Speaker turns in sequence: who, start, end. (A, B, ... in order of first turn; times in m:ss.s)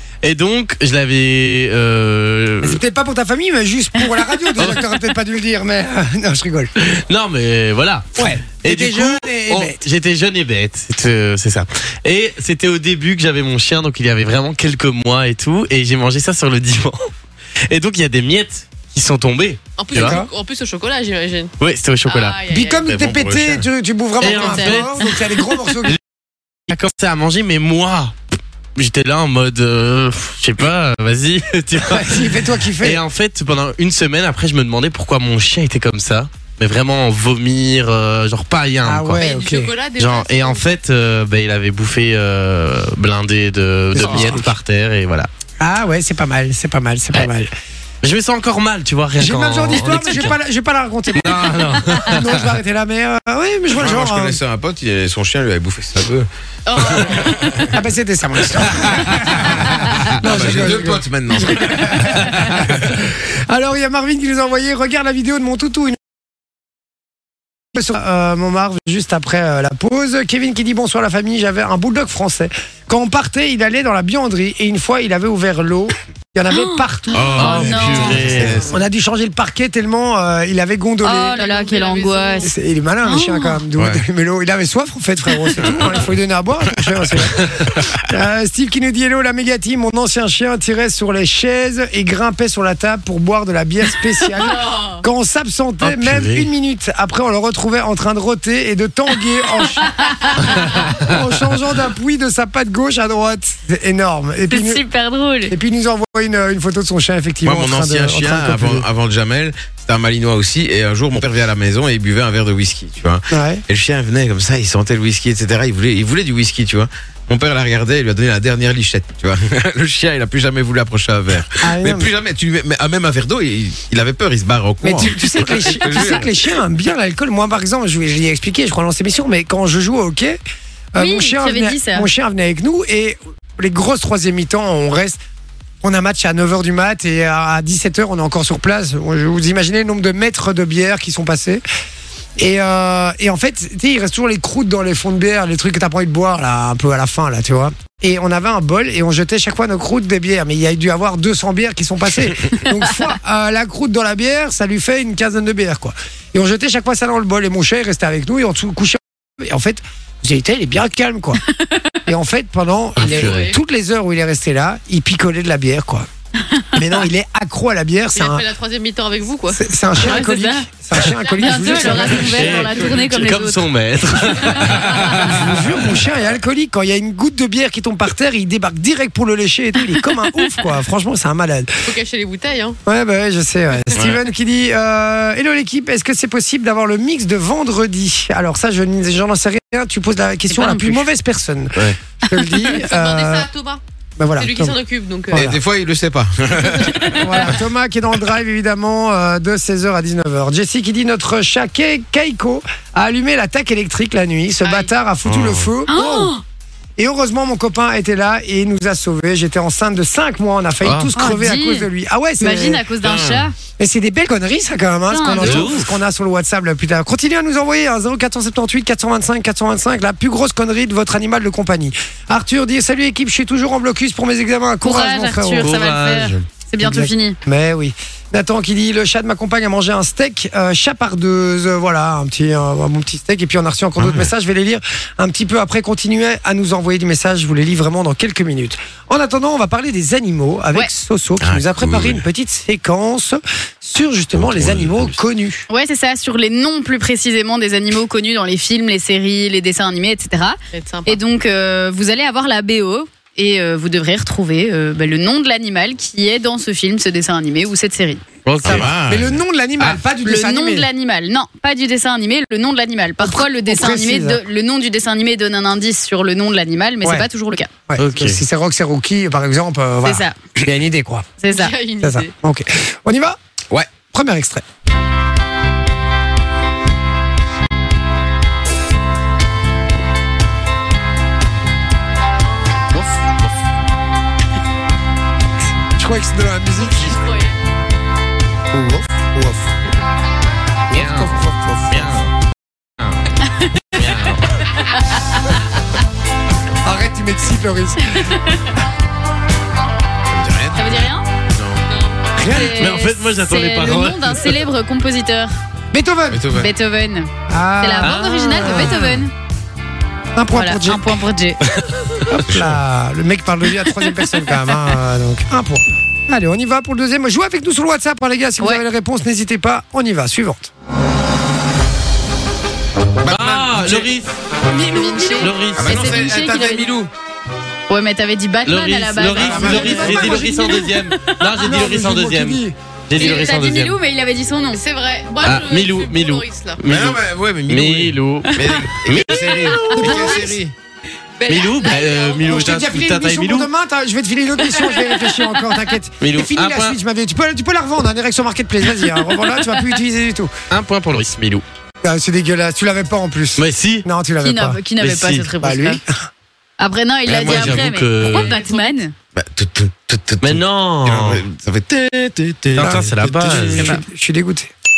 0:00.2-0:02.8 A
0:02.6-0:06.7 B
0:04.6-0:04.9 A
0:06.8-0:17.1 A
0:08.2-0:09.8 B
0:17.7-0:20.2 A
0:19.8-0:21.5 C
0:19.9-0:20.3 B
0:21.6-0:22.4 A
0:22.0-0:22.8 C
0:22.5-0:26.0 B
0:22.8-0:23.6 D
0:24.2-0:25.1 A
0:24.3-0:24.8 E
0:26.7-0:28.1 A
0:28.8-0:39.2 A
0:31.8-0:33.0 B
0:38.8-0:39.7 B
0:39.1-0:40.8 C
0:40.0-0:45.3 A
0:43.9-0:44.5 B
0:44.0-0:44.3 D
0:45.6-0:47.5 B
0:48.0-0:50.4 A
0:49.2-0:54.4 B
0:51.1-0:52.5 A
0:53.8-0:57.7 D
0:56.6-0:57.4 C
0:57.7-1:06.0 B
0:59.2-1:02.8 D
1:07.7-1:18.1 B
1:16.5-1:18.3 E
1:17.1-1:18.8 D
1:17.4-1:18.6 A
1:18.6-1:21.4 B
1:21.0-1:22.5 E
1:21.3-1:22.5 C
1:22.4-1:39.9 B
1:23.0-1:23.6 E
1:25.6-1:26.1 D
1:34.4-1:35.0 C
1:35.8-1:36.5 A
1:39.9-1:40.5 E
1:40.6-1:44.8 B
1:44.5-1:45.5 E
1:45.5-1:48.9 B
1:47.4-2:06.3 D
1:53.3-1:53.6 B
2:01.6-2:02.1 B
2:04.8-2:10.4 B
2:10.9-2:15.2 B
2:11.0-2:12.1 E
2:15.8-2:21.6 B
2:22.4-2:41.4 B
2:41.5-2:42.0 E
2:42.0-2:46.1 B
2:43.0-2:43.5 A
2:43.0-2:43.6 C
2:46.5-2:46.8 E
2:46.7-2:48.4 B
2:48.1-2:49.6 C
2:49.5-2:52.6 B
2:50.0-2:50.6 E
2:51.2-2:52.6 C
2:51.4-2:53.6 E
2:52.0-2:55.7 A
2:55.2-3:01.7 B
3:00.0-3:00.4 E
3:01.8-3:02.8 C
3:02.8-3:13.5 B
3:03.9-3:04.2 D
3:10.5-3:11.0 E
3:12.7-3:13.8 C
3:14.2-3:14.8 B
3:14.4-3:15.4 C
3:15.3-3:15.6 B
3:15.3-3:17.5 D
3:17.1-3:26.3 B
3:24.6-3:24.9 C
3:25.2-3:25.7 D
3:25.9-3:26.4 E
3:27.0-3:32.8 B
3:30.8-3:31.1 A
3:31.2-3:33.5 E
3:33.0-3:33.5 D
3:33.8-3:45.7 B
3:35.1-3:35.7 E
3:35.3-3:35.9 A
3:44.8-3:47.4 E
3:45.6-3:46.4 A
3:46.8-4:05.6 B
3:54.0-3:54.3 D
4:01.4-4:02.2 D
4:04.3-4:05.2 D
4:05.7-4:18.2 E
4:10.7-4:11.2 C
4:18.4-4:18.9 A
4:18.6-4:20.0 D
4:18.6-4:20.9 B
4:20.2-4:27.7 E
4:23.2-4:24.4 B
4:27.9-4:31.3 B
4:28.0-4:28.4 A
4:30.0-4:30.3 E
4:31.4-4:31.7 E
4:31.5-4:32.3 C
4:32.0-4:33.4 B
4:34.1-4:34.6 B
4:42.9-4:43.3 A
4:46.0-4:47.2 B
4:46.8-4:47.6 C
4:48.7-4:49.7 B
4:50.9-4:52.2 B
4:50.9-4:52.3 A
4:53.9-4:54.4 A
4:56.8-4:58.4 B
4:58.2-4:58.6 E
5:00.3-5:01.8 D
5:00.8-5:01.2 E
5:02.4-5:02.9 B
5:02.5-5:05.5 E
5:02.7-5:04.6 A
5:05.9-5:06.5 B
5:06.3-5:06.7 D
5:06.5-5:07.3 E
5:07.5-5:09.2 B
5:07.8-5:09.3 E
5:10.3-5:11.2 B
5:10.5-5:11.6 E
5:11.8-5:12.2 A
5:12.3-5:20.7 B
5:12.4-5:12.8 D
5:23.2-5:24.1 D
5:23.2-5:24.3 A
5:24.7-5:26.9 E
5:25.3-5:26.1 A
5:25.7-5:27.1 D
5:27.9-5:31.6 E
5:28.6-5:34.0 A
5:29.3-5:30.4 D
5:29.4-5:30.8 B
5:31.6-5:32.7 B
5:33.1-5:34.8 E
5:33.2-5:33.4 C
5:34.7-5:36.8 C
5:35.4-5:39.8 A
5:36.8-5:40.7 D
5:38.5-5:38.8 E
5:39.6-5:40.2 E
5:39.8-5:40.6 B
5:41.4-5:42.6 C
5:41.5-5:43.7 A
5:42.4-5:50.5 B
5:46.2-5:47.0 A
5:50.7-5:51.6 A
5:52.0-5:54.8 B
5:53.6-5:54.0 A
5:54.4-5:56.0 E
5:55.0-5:55.5 A
5:55.6-5:56.3 B
5:56.8-5:59.1 E
5:57.3-5:58.6 A
5:57.3-5:57.8 D
5:58.2-5:59.0 C
5:59.3-6:03.7 D
6:00.4-6:01.4 A
6:02.7-6:03.9 A
6:02.8-6:04.7 B
6:03.8-6:04.0 E